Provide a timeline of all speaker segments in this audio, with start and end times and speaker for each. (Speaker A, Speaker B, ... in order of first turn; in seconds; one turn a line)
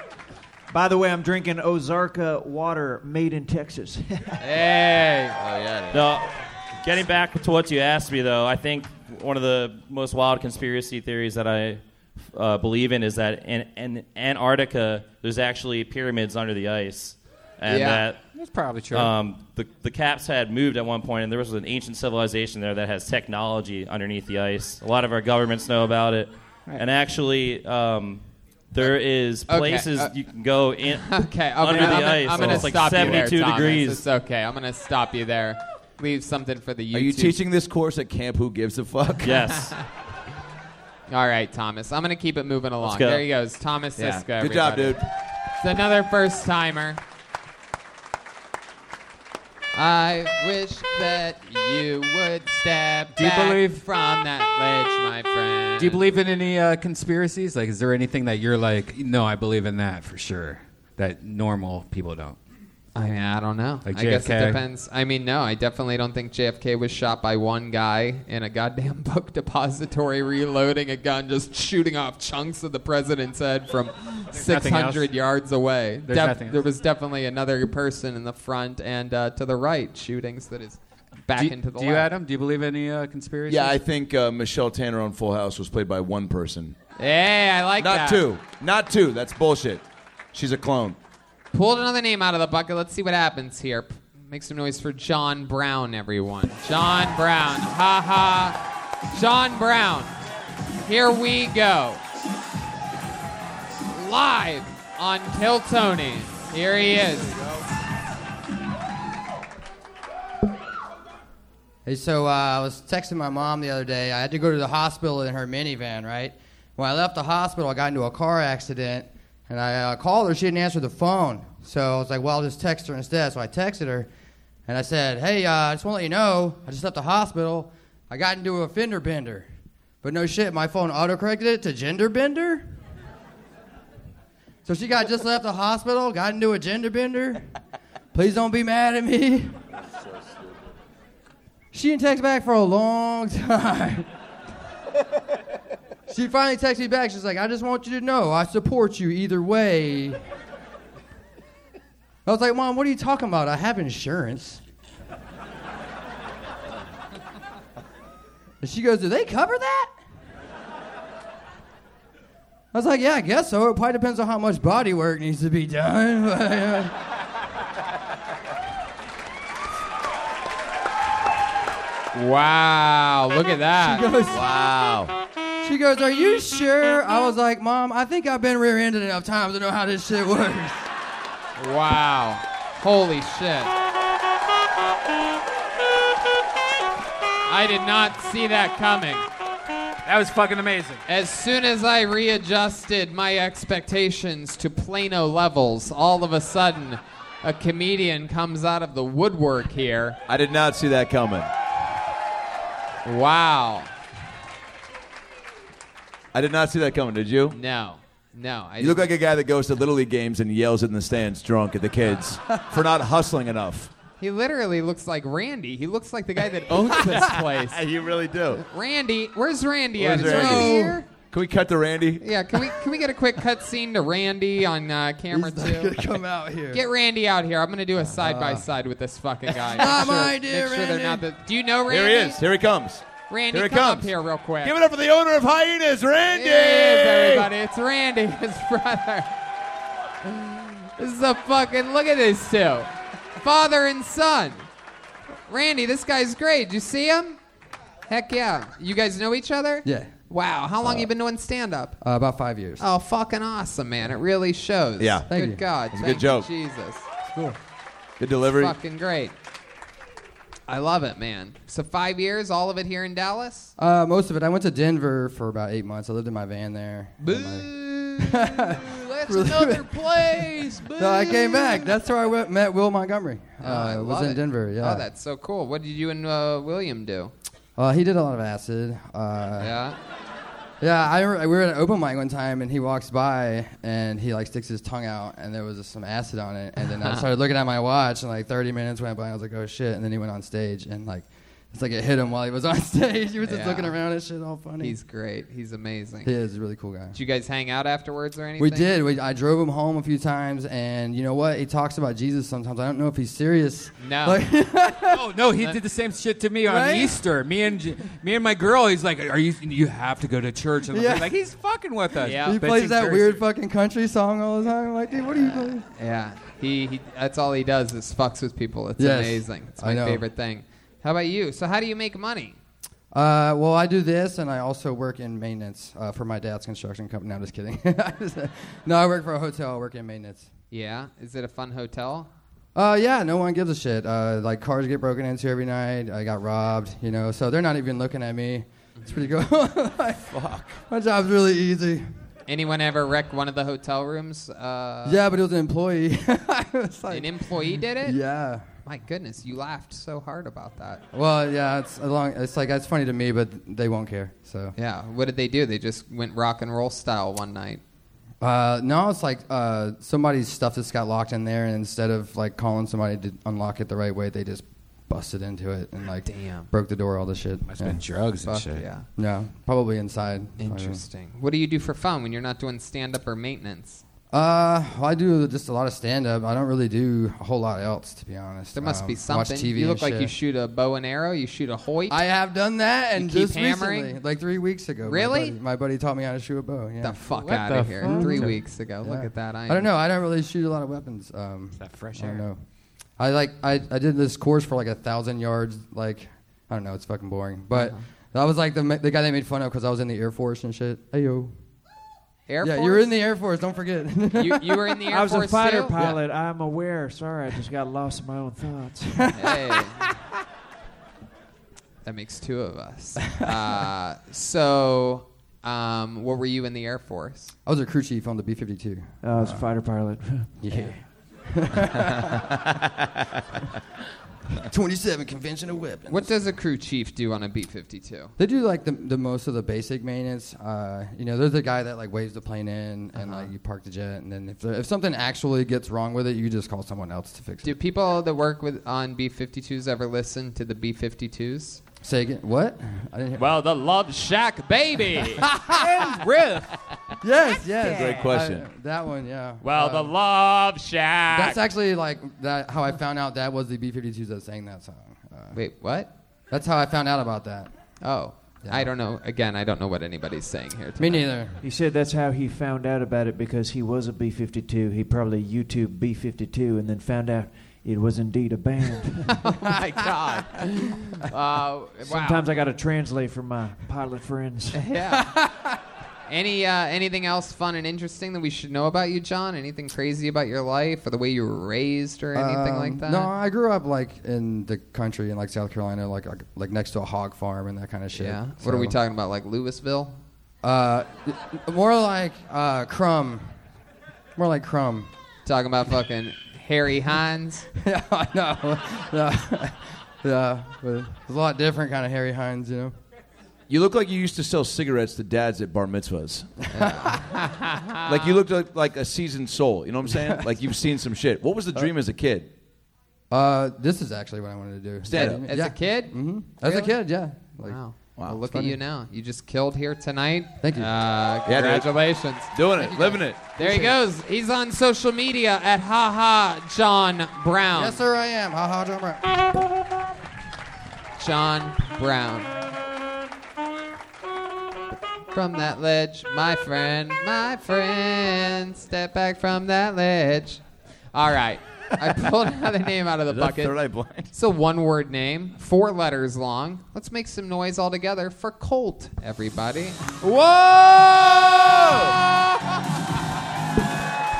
Speaker A: 0.7-4.5
Speaker B: 4.4-5.4
Speaker C: 5.3-6.1
Speaker D: 5.9-18.2
Speaker B: 17.7-18.1
Speaker E: 18.3-19.1
Speaker D: 18.9-34.0
Speaker B: 29.5-30.1
Speaker B: 30.9-37.4
Speaker C: 32.4-33.0
Speaker C: 36.9-39.5
Speaker D: 39.2-39.7
Speaker B: 39.6-39.8
Speaker B: 41.1-45.1
Speaker D: 42.8-43.3
Speaker C: 44.1-45.1
Speaker B: 45.6-47.0
Speaker B: 49.7-56.0
Speaker E: 53.2-53.8
Speaker E: 55.8-62.4
Speaker B: 63.0-82.1
Speaker E: 63.9-64.6
Speaker E: 74.3-75.2
Speaker E: 76.0-76.6
Speaker E: 81.3-83.8
Speaker C: 83.5-86.8
Speaker B: 87.0-88.3
Speaker C: 87.8-91.0
Speaker B: 91.5-98.6
Speaker B: 99.1-100.2
Speaker B: 100.8-102.0
Speaker B: 103.9-107.4
Speaker F: 111.9-124.1
Speaker F: 124.7-129.5
Speaker F: 130.0-132.7
Speaker F: 134.7-137.5
Speaker F: 138.1-139.6
Speaker F: 141.7-144.1
Speaker F: 146.1-150.2
Speaker F: 152.3-154.6
Speaker F: 158.6-159.9
Speaker F: 162.7-166.9
Speaker B: 172.1-174.1
Speaker F: 173.8-174.4
Speaker C: 174.3-175.1
Speaker F: 175.6-180.9
Speaker B: 181.6-183.7
Speaker B: 187.5-189.2
Speaker E: 190.1-191.0
Speaker B: 191.1-200.2
Speaker C: 200.3-201.5
Speaker B: 203.1-203.9
Speaker C: 206.3-207.6
Speaker B: 207.5-209.1
Speaker C: 208.8-213.9
Speaker B: 214.2-217.8
Speaker C: 217.6-218.7
Speaker B: 218.6-221.1
Speaker C: 220.0-222.6
Speaker F: 220.2-221.0
Speaker B: 222.2-226.0
Speaker F: 225.3-226.8
Speaker B: 226.7-232.4
Speaker F: 228.2-228.7
Speaker F: 229.8-231.3
Speaker C: 231.9-237.5
Speaker B: 233.3-234.8
Speaker B: 236.3-239.3
Speaker B: 240.2-244.7
Speaker B: 245.5-247.4
Speaker B: 248.1-252.0
Speaker F: 249.8-250.1
Speaker F: 252.0-252.8
Speaker B: 252.8-257.1
Speaker C: 255.0-255.3
Speaker F: 255.3-255.6
Speaker C: 255.9-256.5
Speaker F: 257.2-257.6
Speaker C: 258.2-258.8
Speaker B: 258.4-259.3
Speaker B: 260.7-263.7
Speaker F: 263.8-275.1
Speaker E: 267.3-268.3
Speaker E: 269.0-271.8
Speaker B: 269.3-271.3
Speaker B: 273.6-277.3
Speaker F: 277.8-279.8
Speaker B: 279.6-280.0
Speaker F: 280.8-295.0
Speaker B: 286.9-287.3
Speaker B: 293.4-294.0
Speaker B: 294.8-296.3
Speaker F: 296.2-297.2
Speaker B: 297.1-298.9
Speaker F: 298.6-305.3
Speaker B: 304.0-304.4
Speaker E: 305.1-313.4
Speaker F: 306.6-307.2
Speaker F: 310.9-311.4
Speaker B: 312.2-312.6
Speaker F: 312.4-315.9
Speaker B: 316.0-322.6
Speaker F: 319.0-320.2
Speaker F: 323.1-330.5
Speaker B: 330.7-332.3
Speaker F: 332.8-340.4
Speaker C: 340.3-340.8
Speaker F: 340.9-342.1
Speaker B: 342.5-345.2
Speaker F: 345.1-348.7
Speaker B: 347.1-348.2
Speaker B: 348.9-351.0
Speaker F: 351.1-354.7
Speaker B: 354.8-357.8
Speaker F: 358.4-368.0
Speaker B: 366.2-366.7
Speaker E: 367.6-369.0
Speaker B: 368.4-369.1
Speaker F: 369.2-371.0
Speaker B: 370.6-374.0
Speaker F: 374.3-380.3
Speaker B: 378.8-382.2
Speaker F: 382.1-387.2
Speaker B: 383.2-384.2
Speaker B: 385.1-385.6
Speaker B: 387.0-389.9
Speaker E: 387.3-388.6
Speaker F: 388.0-392.6
Speaker E: 391.8-392.4
Speaker F: 393.2-401.5
Speaker B: 397.7-398.0
Speaker B: 402.5-403.2
Speaker F: 402.6-405.0
Speaker B: 404.4-406.1
Speaker A: 405.1-409.3
Speaker F: 409.2-409.6
Speaker B: 409.4-410.1
Speaker B: 412.0-417.5
Speaker F: 413.2-413.6
Speaker F: 417.6-419.7
Speaker A: 419.2-420.6
Speaker F: 420.6-422.5
Speaker F: 424.6-426.4
Speaker B: 426.1-428.3
Speaker F: 428.4-437.8
Speaker B: 433.2-433.5
Speaker B: 437.6-441.9
Speaker F: 442.0-443.6
Speaker B: 443.4-446.2
Speaker F: 445.4-445.7
Speaker E: 445.7-446.7
Speaker F: 447.2-450.1
Speaker C: 447.8-448.7
Speaker B: 447.8-448.2
Speaker B: 449.6-451.6
Speaker F: 451.3-455.6
Speaker B: 455.5-456.1
Speaker F: 456.5-457.7
Speaker B: 458.0-461.3
Speaker F: 458.6-458.9
Speaker F: 461.0-461.6
Speaker A: 461.6-469.4
Speaker B: 469.4-472.4
Speaker A: 472.0-474.8
Speaker B: 474.8-475.3
Speaker F: 475.1-475.8
Speaker B: 476.3-483.3
Speaker F: 482.4-489.0
Speaker B: 488.1-490.2
Speaker F: 490.6-493.6
Speaker F: 494.4-495.1
Speaker B: 495.4-497.7
Speaker F: 497.8-502.9
Speaker C: 503.7-506.5
Speaker F: 506.6-507.3
Speaker B: 506.7-508.4
Speaker C: 508.1-512.5
Speaker F: 510.1-510.5
Speaker F: 513.3-517.8
Speaker C: 515.0-515.5
Speaker B: 515.1-517.0
Speaker B: 517.6-528.0
Speaker F: 518.5-518.8
Speaker F: 520.6-520.9
Speaker C: 521.5-521.9
Speaker C: 522.5-523.5
Speaker F: 523.6-523.9
Speaker F: 527.8-529.5
Speaker B: 531.2-532.6
Speaker B: 535.3-543.8
Speaker C: 543.3-544.3
Speaker B: 544.3-552.2
Speaker C: 551.4-552.1